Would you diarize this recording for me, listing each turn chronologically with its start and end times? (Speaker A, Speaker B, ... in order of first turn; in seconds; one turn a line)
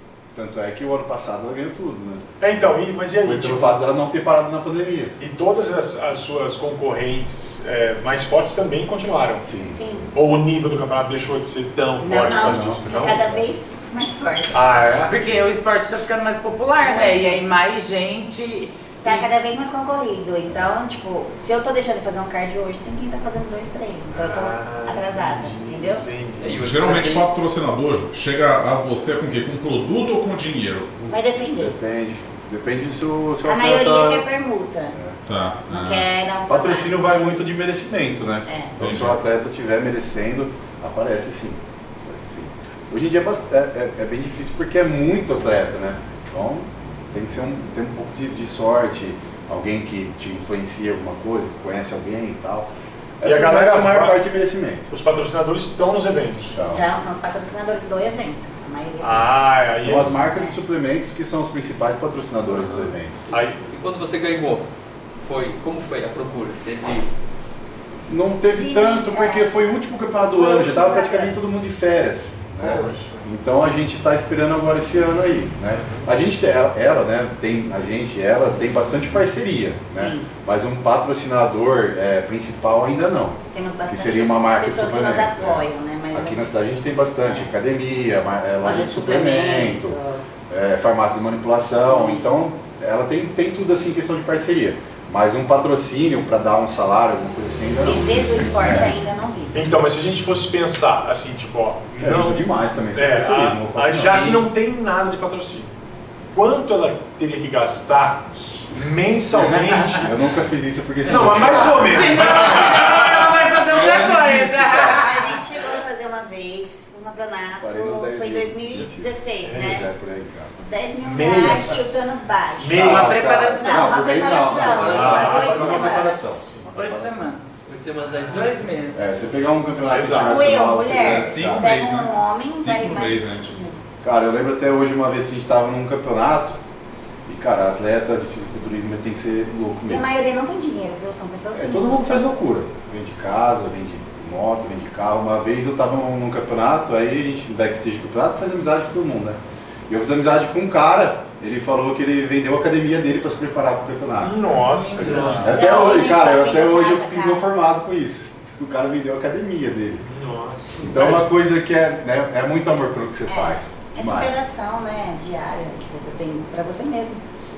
Speaker A: 0.3-5.1
Speaker B: 2.4-3.8
Speaker B: 5.2-9.4
Speaker A: 9.4-9.8
Speaker C: 9.7-10.1
Speaker B: 10.1-13.2
Speaker C: 12.0-14.6
Speaker A: 12.1-13.4
Speaker B: 14.5-15.2
Speaker D: 15.1-19.3
Speaker C: 16.8-17.4
Speaker C: 19.0-26.0
Speaker A: 20.5-20.7
Speaker B: 24.1-26.6
Speaker E: 26.4-27.3
Speaker F: 26.5-31.1
Speaker C: 31.1-31.7
Speaker A: 31.6-34.2
Speaker C: 33.4-35.0
Speaker F: 35.3-36.1
Speaker C: 35.7-37.1
Speaker A: 36.5-54.9
Speaker C: 38.5-38.7
Speaker F: 38.8-39.1
Speaker B: 53.2-54.2
Speaker B: 54.9-56.5
Speaker A: 56.5-56.8
Speaker C: 56.7-59.3
Speaker B: 59.0-60.2
Speaker A: 59.8-63.3
Speaker C: 60.2-60.5
Speaker B: 63.3-63.6
Speaker E: 63.4-64.7
Speaker E: 65.2-67.1
Speaker A: 68.1-90.0
Speaker C: 68.5-69.5
Speaker C: 70.2-71.3
Speaker B: 72.6-73.2
Speaker B: 75.7-76.1
Speaker C: 79.9-80.3
Speaker C: 83.5-86.5
Speaker C: 87.2-87.5
Speaker C: 88.6-90.2
Speaker A: 90.5-99.0
Speaker C: 91.7-92.3
Speaker C: 97.8-99.7
Speaker B: 99.5-102.4
Speaker A: 102.0-104.5
Speaker B: 102.9-105.7
Speaker B: 106.3-110.1
Speaker A: 109.9-115.1
Speaker B: 111.0-112.4
Speaker C: 111.3-112.5
Speaker D: 111.9-115.4
Speaker C: 115.0-119.8
Speaker A: 117.6-120.5
Speaker B: 119.4-119.8
Speaker C: 120.6-126.3
Speaker B: 121.0-122.0
Speaker A: 121.2-121.7
Speaker B: 122.6-123.4
Speaker A: 122.7-127.3
Speaker D: 122.8-124.0
Speaker B: 124.6-126.0
Speaker E: 124.8-125.2
Speaker D: 126.7-127.5
Speaker E: 127.7-128.6
Speaker B: 128.0-128.6
Speaker D: 128.3-129.0
Speaker A: 128.9-131.8
Speaker B: 129.8-130.5
Speaker C: 130.1-133.8
Speaker F: 130.9-133.5
Speaker A: 134.0-136.6
Speaker A: 137.3-140.1
Speaker C: 139.9-142.3
Speaker A: 141.5-160.1
Speaker B: 154.2-155.8
Speaker E: 154.8-155.7
Speaker D: 154.9-155.3
Speaker C: 155.4-157.4
Speaker B: 160.0-161.2
Speaker A: 160.8-164.3
Speaker C: 163.3-167.2